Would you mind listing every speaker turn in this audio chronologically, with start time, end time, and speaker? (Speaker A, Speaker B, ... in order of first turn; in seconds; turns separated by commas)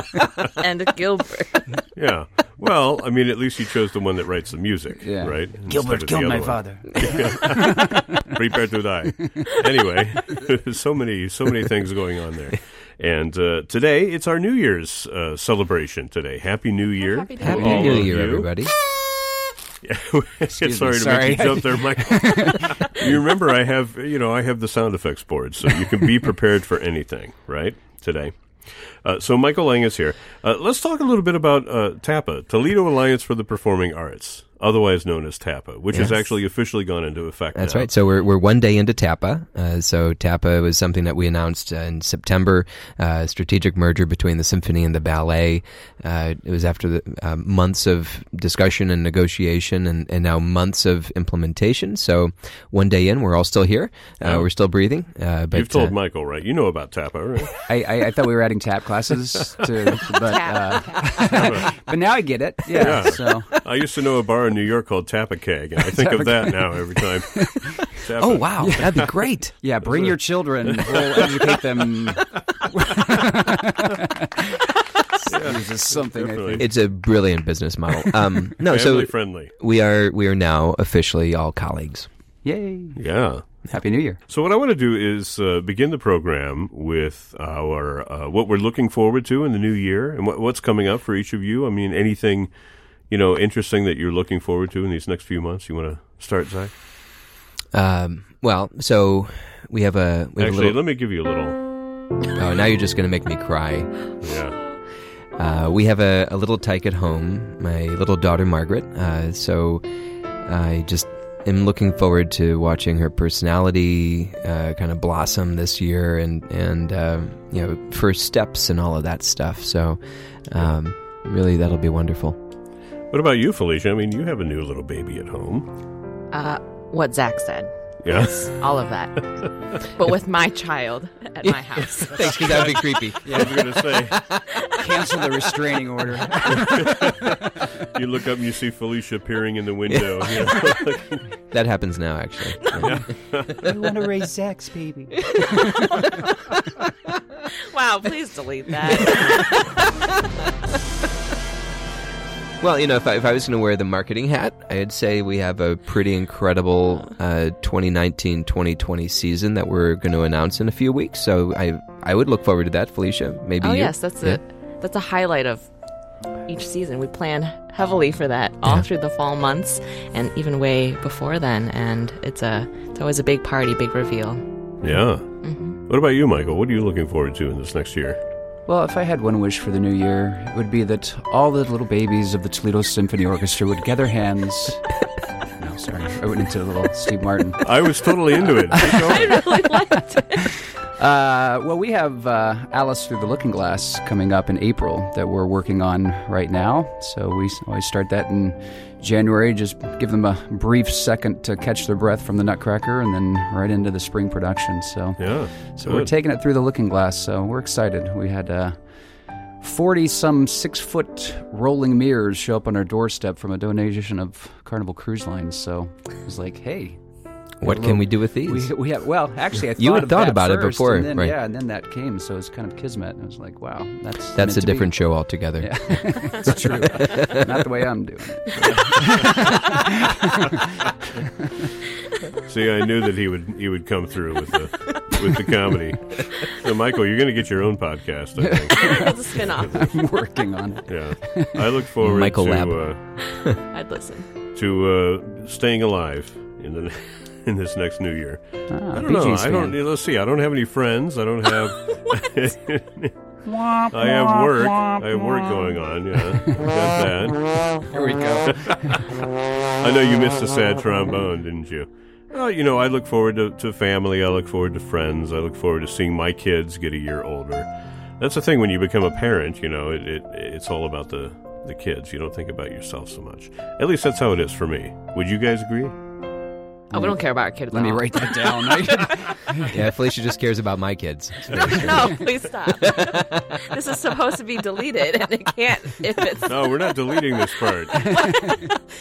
Speaker A: 0.6-1.6, Speaker B: 1.9-18.5, Speaker C: 5.0-8.0, Speaker A: 17.0-18.0, Speaker D: 17.4-18.7, Speaker C: 17.4-18.1, Speaker B: 19.8-37.9, Speaker C: 20.5-23.2, Speaker D: 35.9-36.2, Speaker D: 37.5-55.9, Speaker B: 54.2-54.5, Speaker B: 55.5-57.5, Speaker C: 57.6-63.6, Speaker A: 60.2-61.3, Speaker B: 61.2-61.7, Speaker B: 62.8-69.1, Speaker C: 65.8-76.7, Speaker D: 68.6-69.5, Speaker B: 69.8-72.0, Speaker B: 75.2-76.7, Speaker D: 76.6-82.1, Speaker B: 78.6-79.5, Speaker C: 82.4-83.0, Speaker B: 83.0-83.4, Speaker C: 83.7-84.2, Speaker B: 84.3-92.5, Speaker B: 93.1-96.7, Speaker D: 97.7-100.8, Speaker B: 100.4-101.6, Speaker D: 102.4-104.1, Speaker B: 104.2-104.6, Speaker D: 105.3-109.8, Speaker D: 110.4-122.4, Speaker B: 123.1-125.7, Speaker A: 126.3-132.4, Speaker B: 128.0-128.5, Speaker D: 131.4-134.6, Speaker B: 132.1-134.2, Speaker C: 133.2-133.8, Speaker C: 134.7-137.8, Speaker B: 136.5-141.2, Speaker D: 139.9-140.3, Speaker D: 141.5-143.0, Speaker B: 142.8-143.6, Speaker C: 143.6-145.9, Speaker A: 145.5-146.2, Speaker A: 147.6-149.7, Speaker D: 149.1-149.4, Speaker D: 152.6-164.4, Speaker A: 163.6-165.7, Speaker A: 166.4-174.4, Speaker B: 174.8-178.2, Speaker A: 175.4-175.8, Speaker C: 178.7-184.9, Speaker C: 185.6-187.8, Speaker B: 187.6-189.5, Speaker C: 188.7-189.2, Speaker A: 188.8-190.5, Speaker C: 190.9-208.8, Speaker B: 205.2-206.1, Speaker C: 209.6-217.0, Speaker D: 217.6-218.7, Speaker C: 217.6-225.1, Speaker D: 219.8-221.4, Speaker D: 224.3-226.4, Speaker C: 225.6-231.5, Speaker D: 227.0-227.3, Speaker B: 228.6-229.3, Speaker B: 232.4-239.9, Speaker C: 238.4-241.7, Speaker A: 238.7-239.9, Speaker B: 240.9-243.0, Speaker D: 242.0-243.6, Speaker A: 243.2-244.3, Speaker B: 244.5-253.1, Speaker C: 248.7-249.8, Speaker C: 253.4-256.8, Speaker B: 253.9-257.7, Speaker C: 257.8-259.1, Speaker B: 258.4-259.2, Speaker B: 259.8-267.7, Speaker B: 268.2-275.9, Speaker A: 276.9-278.7, Speaker C: 277.7-279.8, Speaker D: 279.6-282.3, Speaker C: 281.6-282.1, Speaker A: 281.7-286.6, Speaker D: 282.8-283.5, Speaker B: 286.4-288.2, Speaker C: 288.0-288.7